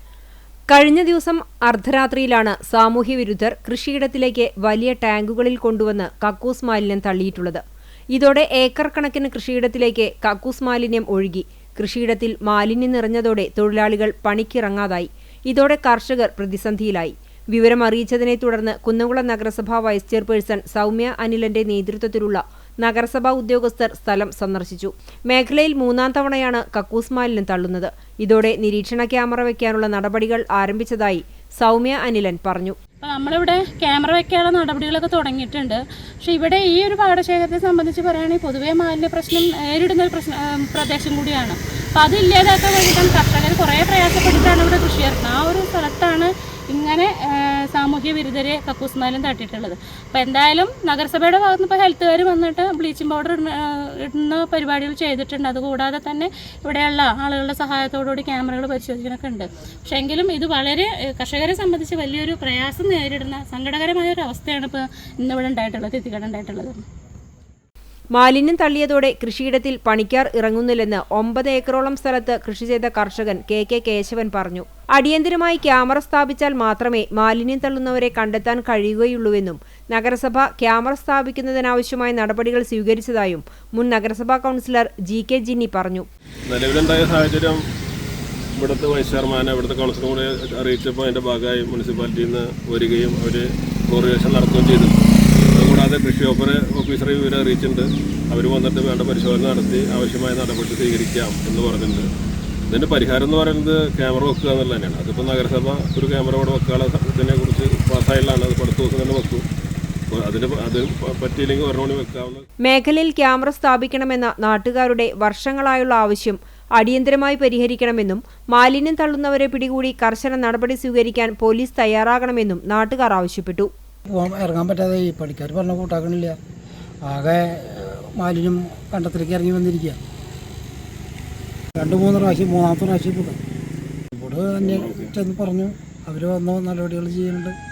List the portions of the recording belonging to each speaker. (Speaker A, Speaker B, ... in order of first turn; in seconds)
Speaker A: 0.7-7.6, 8.1-32.8, 68.1-86.1, 112.7-123.7
Speaker B: 33.0-66.8
Speaker C: 86.5-87.6, 88.6-102.1, 102.7-109.5, 110.1-112.5
Speaker D: 124.1-126.4, 127.1-130.0, 131.8-133.4, 134.2-137.6